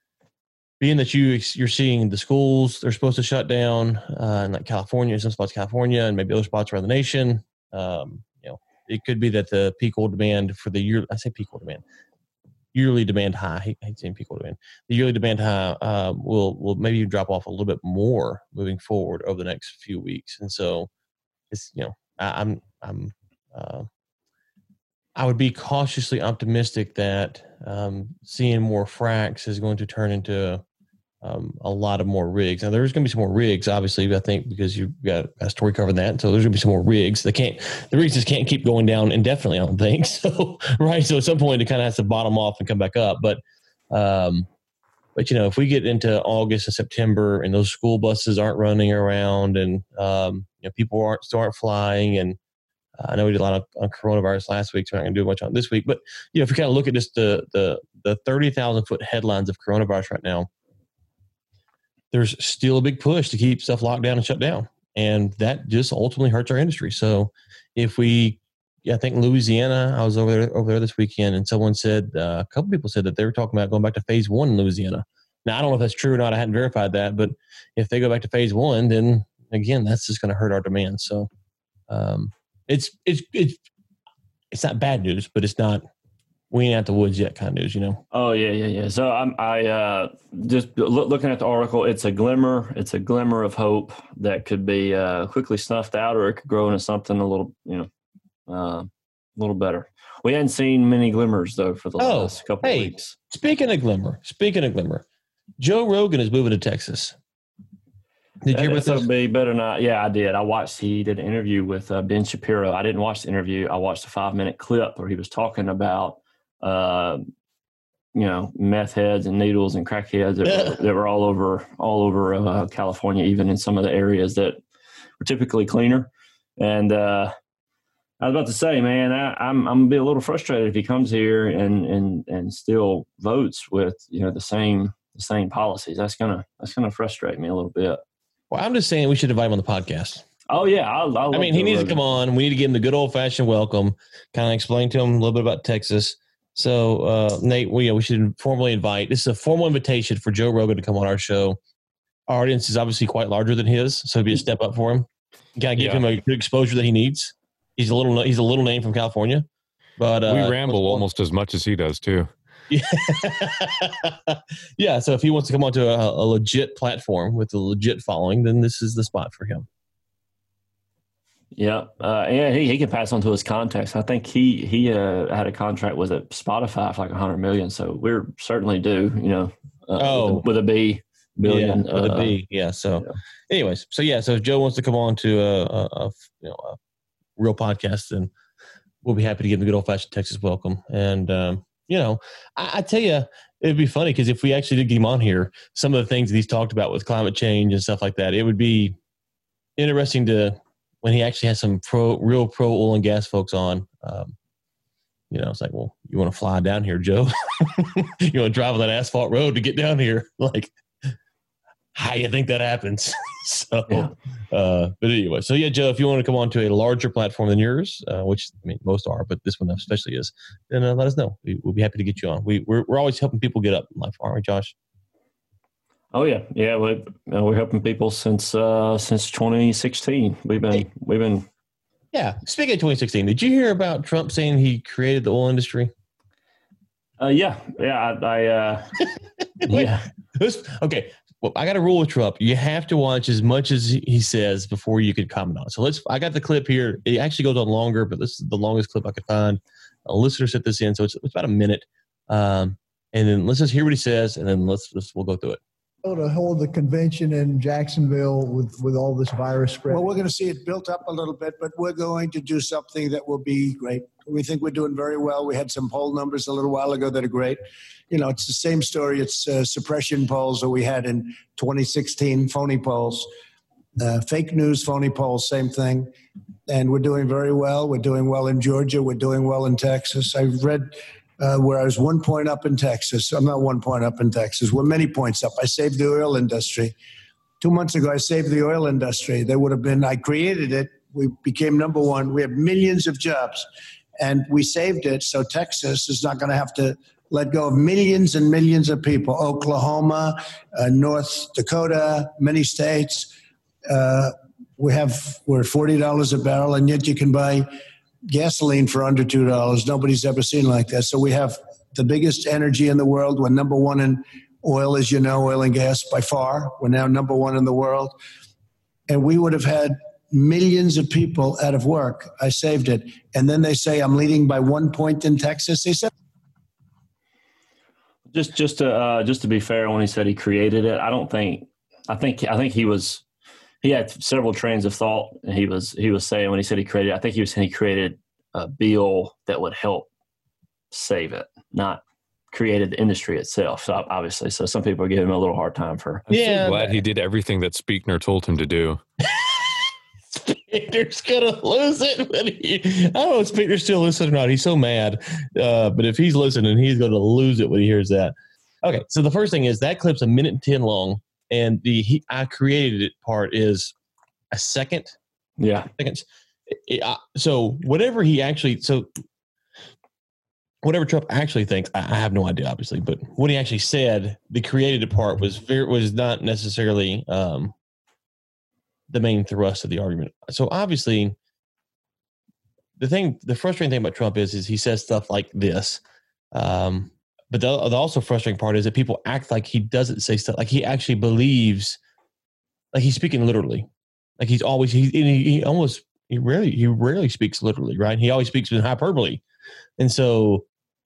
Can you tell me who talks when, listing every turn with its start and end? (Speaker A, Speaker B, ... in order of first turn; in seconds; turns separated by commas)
Speaker A: 0.8-11.8, Speaker A: 12.7-20.9, Speaker A: 21.5-23.9, Speaker A: 25.1-30.6, Speaker A: 31.2-44.5, Speaker A: 45.1-52.4, Speaker A: 53.0-60.5, Speaker A: 62.1-81.3, Speaker A: 81.9-83.6, Speaker A: 84.5-85.8, Speaker A: 86.5-88.0, Speaker B: 88.1-97.9, Speaker B: 98.5-103.1, Speaker A: 102.0-105.0, Speaker A: 105.6-107.2, Speaker A: 108.4-109.1, Speaker B: 108.5-117.2, Speaker B: 118.1-124.6, Speaker A: 120.4-120.8, Speaker B: 125.2-127.3, Speaker B: 128.2-138.0, Speaker A: 138.5-140.2, Speaker B: 140.5-142.0, Speaker A: 141.3-151.6, Speaker A: 152.3-159.4, Speaker C: 155.8-156.0, Speaker A: 160.0-161.0, Speaker C: 160.2-162.3, Speaker A: 162.7-169.7, Speaker B: 171.5-182.4, Speaker A: 180.0-180.4, Speaker A: 181.4-186.8, Speaker A: 187.4-188.3, Speaker A: 189.0-198.9, Speaker A: 199.8-204.3, Speaker A: 205.3-211.1, Speaker A: 211.9-224.7, Speaker B: 226.1-231.5, Speaker A: 232.1-235.9, Speaker B: 237.2-239.0, Speaker A: 239.6-255.6, Speaker B: 239.6-240.1, Speaker D: 256.0-260.1, Speaker E: 259.9-273.3, Speaker E: 274.0-276.1, Speaker E: 276.7-286.9, Speaker E: 287.6-293.7, Speaker E: 294.2-303.3, Speaker E: 303.9-307.7, Speaker E: 308.3-318.1, Speaker E: 319.1-326.1, Speaker B: 328.3-333.2, Speaker B: 333.8-340.1, Speaker B: 340.9-342.0, Speaker B: 342.5-346.3, Speaker C: 346.3-349.0, Speaker A: 346.3-347.0, Speaker A: 349.2-363.9, Speaker A: 364.5-365.1, Speaker B: 365.6-365.9, Speaker A: 365.9-369.1, Speaker A: 370.8-377.7, Speaker A: 379.1-381.4, Speaker A: 383.0-386.0, Speaker A: 386.5-392.0, Speaker A: 392.9-393.9, Speaker A: 394.4-399.4, Speaker A: 400.0-400.6